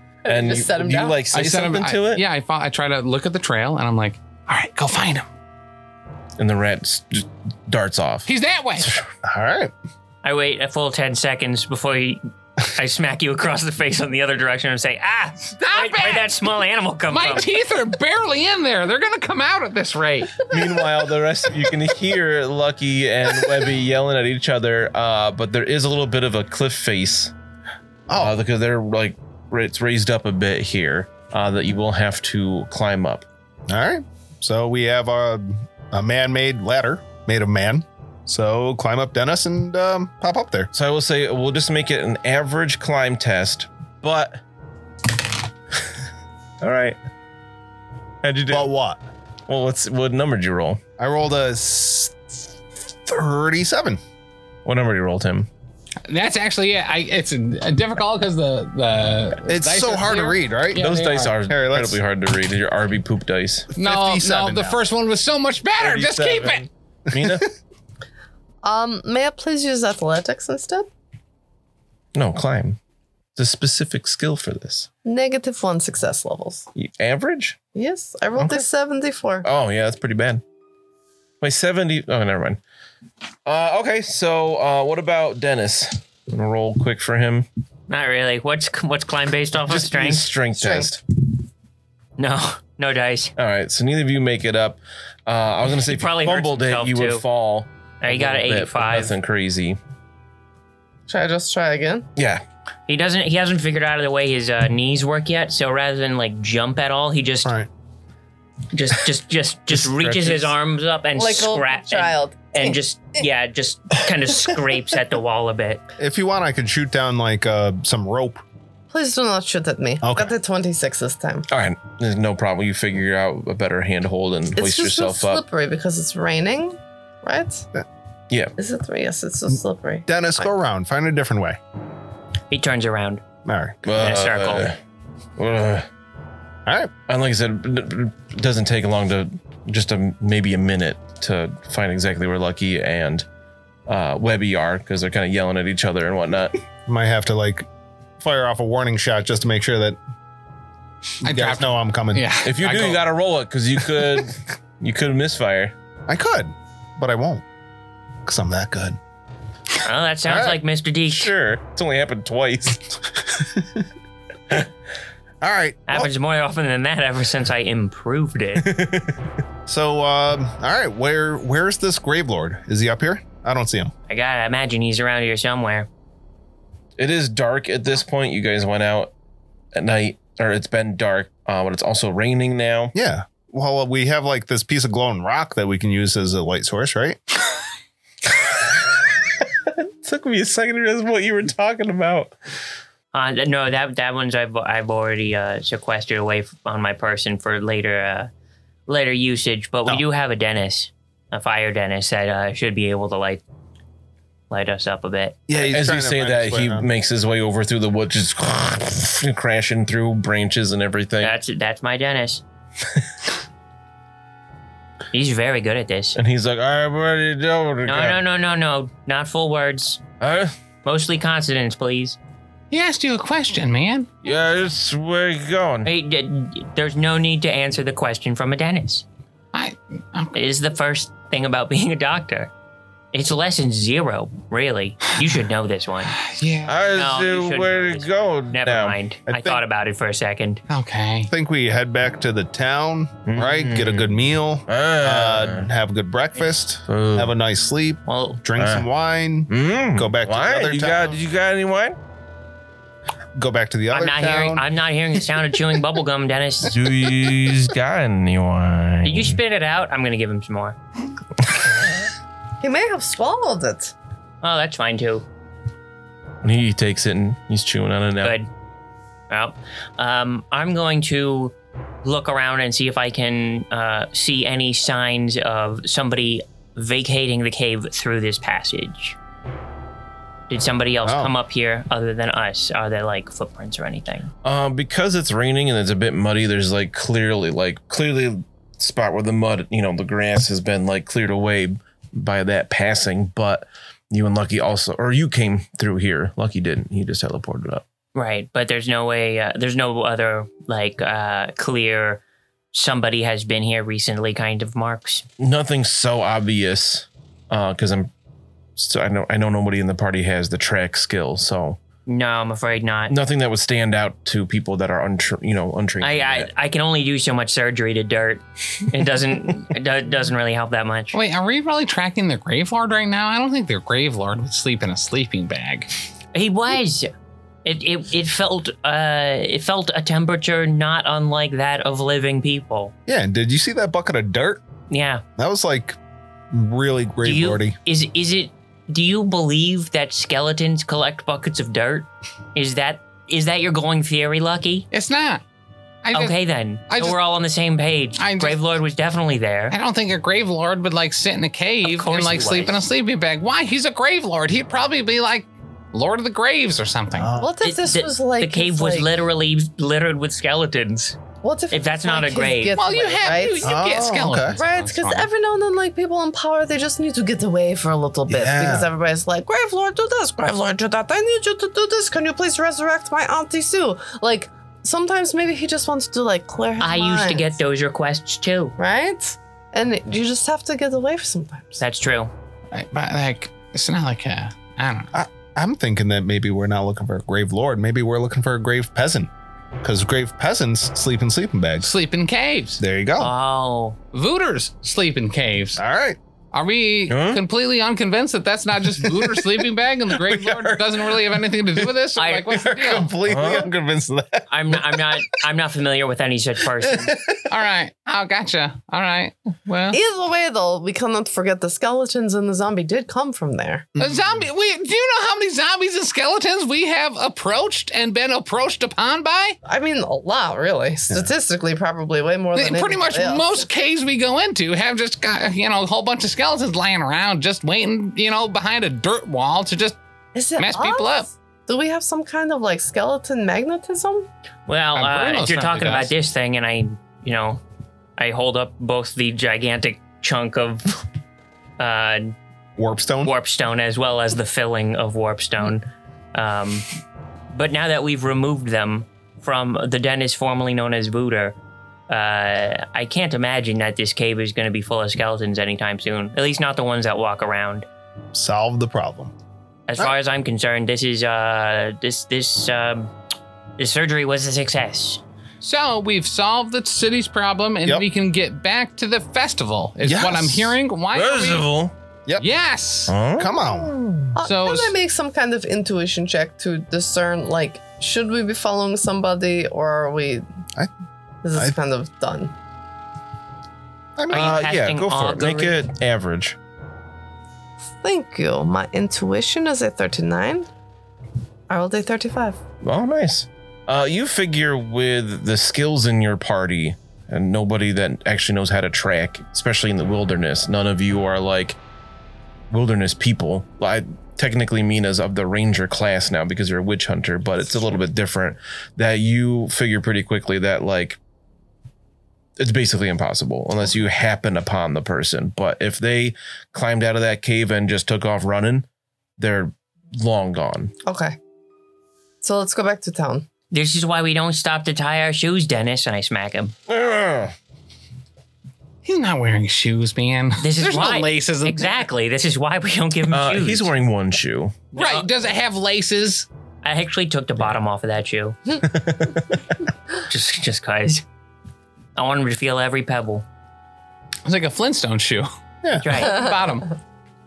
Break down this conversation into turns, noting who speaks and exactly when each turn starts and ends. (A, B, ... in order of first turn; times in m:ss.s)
0:00.2-0:01.2 A
0:00.2-0:02.2 B
0:01.3-0:05.2 C
0:06.4-0:08.3 B
0:08.2-0:08.9 C
0:09.2-0:09.7 D
0:10.2-0:17.5 E
0:15.6-0:16.4 C
0:17.1-0:20.5 C
0:20.5-0:27.3 B
0:28.1-0:28.4 D
0:28.2-0:33.2 B
0:33.7-0:40.7 D
0:40.7-0:44.4 B
0:46.6-0:47.0 B
0:48.2-0:48.7 B
0:48.5-0:49.0 D
0:49.5-0:50.8 B
0:51.0-0:52.2 D
0:53.0-0:54.0 D
0:54.6-0:55.5 B
0:56.0-1:01.4 C
0:59.5-1:00.8 D
1:00.8-1:03.7 B
1:01.4-1:02.0 D
1:03.7-1:06.7 C
1:03.8-1:04.8 D
1:05.8-1:07.4 B
1:07.1-1:07.4 D
1:08.6-1:10.9 A
1:12.1-1:12.8 B
1:13.4-1:14.9 B
1:15.0-1:16.7 A
1:16.7-1:17.6 B
1:17.7-1:19.5 A
1:18.4-1:18.6 B
1:19.4-1:20.4 B
1:21.4-1:22.6 B
1:23.4-1:27.5 B
1:27.9-1:30.3 E
1:29.6-1:31.0 B
1:30.6-1:30.9 A
1:32.2-1:33.3 E
1:33.4-1:39.8 B
1:35.7-1:37.2 E
1:38.0-1:39.1 E
1:41.1-1:42.0 A
1:42.2-1:42.4 B
1:42.9-1:47.5 E
1:47.4-1:47.7 D
1:48.7-1:55.8 E
1:49.7-1:50.5 B
1:51.1-1:53.2 A
1:56.0-1:58.4 D
1:58.9-2:01.5 A
2:00.0-2:00.3 D
2:01.5-2:05.4 B
2:04.6-2:07.7 A
2:08.6-2:10.5 A
2:10.1-2:11.6 D
2:12.5-2:13.2 E
2:13.4-2:13.8 D
2:13.8-2:14.8 B
2:13.9-2:14.7 E
2:15.4-2:15.9 B
2:16.6-2:16.9 D
2:17.1-2:23.2 B
2:23.9-2:26.6 B
2:26.8-2:27.7 D
2:28.2-2:30.0 D
2:31.2-2:33.0 C
2:31.2-2:32.3 D
2:32.4-2:35.7 B
2:36.1-2:37.4 D
2:38.2-2:39.0 D
2:39.8-2:41.3 E
2:40.2-2:40.6 D
2:41.1-2:42.8 B
2:43.4-2:43.8 D
2:45.4-2:46.1 D
2:45.9-2:48.7 E
2:48.6-2:49.2 B
2:49.6-2:53.9 D
2:54.1-2:55.9 E
2:57.0-2:59.1 B
2:59.7-3:02.9 B
3:02.9-3:07.2 D
3:08.6-3:12.4 B
3:13.1-3:18.3 E
3:18.9-3:23.4 E
3:24.5-3:25.4 E
3:25.5-3:26.9 D
3:25.5-3:31.3 B
3:31.2-3:32.4 E
3:35.1-3:36.2 E
3:36.1-3:38.2 B
3:37.8-3:40.0 E
3:40.2-3:40.5 B
3:40.8-3:42.2 E
3:42.7-3:44.1 C
3:44.2-3:45.9 B
3:45.8-3:49.0 E
3:49.5-3:50.3 C
3:50.3-3:52.5 E
3:53.1-3:56.2 E
3:56.2-3:56.8 C
3:56.6-3:59.0 B
3:56.9-4:00.6 E
3:59.3-3:59.6 D
4:00.7-4:01.3 C
4:01.3-4:11.2 D
4:03.2-4:05.7 B
4:06.8-4:07.3 B
4:08.0-4:08.4 E
4:08.6-4:08.8 B
4:09.5-4:12.0 B
4:13.3-4:14.6 D
4:13.9-4:16.8 E
4:16.7-4:19.4 B
4:19.0-4:20.8 E
4:22.6-4:23.9 A
4:24.4-4:25.2 E
4:26.4-4:28.4 B
4:28.2-4:28.5 E
4:29.3-4:39.2 E
4:40.5-4:44.3 E
4:41.0-4:41.3 D
4:44.4-4:57.8 B
4:58.1-5:02.2 E
5:02.7-5:05.2 E
5:05.4-5:08.1 B
5:08.8-5:11.8 B
5:12.1-5:13.1 E
5:13.1-5:16.5 B
5:16.0-5:21.1 E
5:21.1-5:25.9 C
5:26.3-5:27.1 E
5:27.6-5:32.9 E
5:33.1-5:34.6 D
5:34.9-5:35.2 E
5:35.4-5:36.0 D
5:36.5-5:37.8 D
5:37.2-5:44.9 E
5:44.9-5:45.4 C
5:46.0-5:46.4 C
5:46.1-5:49.8 E
5:46.9-5:47.2 C
5:48.2-5:48.6 C
5:49.7-5:57.3 C
5:51.8-5:52.8 E
5:57.1-5:57.6 D
5:57.4-5:59.1 A
5:57.6-6:01.2 E
6:01.4-6:03.8 A
6:01.7-6:02.8 E
6:02.7-6:05.3 C
6:03.6-6:04.6 D
6:04.6-6:17.5 A
6:08.3-6:08.9 D
6:16.8-6:18.8 E
6:18.8-6:21.8 A
6:21.8-6:22.3 E
6:22.7-6:25.1 C
6:25.1-6:29.3 D
6:29.8-6:31.9 D
6:31.8-6:32.8 C
6:32.8-6:33.3 D
6:33.2-6:34.0 E
6:34.1-6:35.8 C
6:35.8-6:36.2 D
6:36.5-6:43.1 C
6:37.1-6:37.4 B
6:39.0-6:41.0 D
6:42.2-6:42.6 E
6:42.5-6:45.0 D
6:43.3-6:43.7 B
6:44.5-6:47.2 E
6:47.0-6:47.4 D
6:47.5-6:50.0 C
6:49.9-6:53.9 A
6:54.0-6:54.4 D
6:54.0-6:59.6 C
6:59.6-7:03.6 A
7:02.5-7:10.0 C
7:10.3-7:14.3 A
7:10.6-7:11.3 C
7:14.7-7:17.6 E
7:14.9-7:16.1 C
7:18.2-7:20.9 E
7:21.8-7:22.3 E
7:22.8-7:23.3 D
7:23.2-7:26.8 E
7:27.5-7:31.6 E
7:32.1-7:37.8 E
7:38.3-7:39.3 D
7:39.9-7:43.1 E
7:43.8-7:45.2 E
7:45.6-7:51.6 C
7:50.0-7:50.8 D
7:51.1-7:51.9 B
7:52.4-7:53.2 C
7:53.1-7:54.4 B
7:53.4-7:53.9 D
7:54.3-8:00.4 A
7:54.4-7:54.9 C
8:01.4-8:02.5 A
8:04.2-8:04.6 D
8:04.3-8:06.6 B
8:04.3-8:05.8 E
8:08.0-8:10.7 A
8:11.7-8:12.6 A
8:12.8-8:21.8 B
8:22.7-8:31.2 B
8:32.6-8:38.8 B
8:39.4-8:40.9 B
8:41.0-8:41.4 A
8:42.4-8:43.5 A
8:43.7-8:46.7 E
8:46.9-8:47.5 B
8:49.0-8:52.0 C
8:50.6-8:53.9 E
8:53.3-8:54.8 B
8:54.9-8:55.3 E
8:55.0-8:56.5 C
8:56.8-8:58.6 E
8:58.8-8:59.7 B
9:00.3-9:01.2 E
9:02.2-9:03.4 E
9:04.4-9:05.5 C
9:06.0-9:06.5 E
9:06.0-9:06.9 C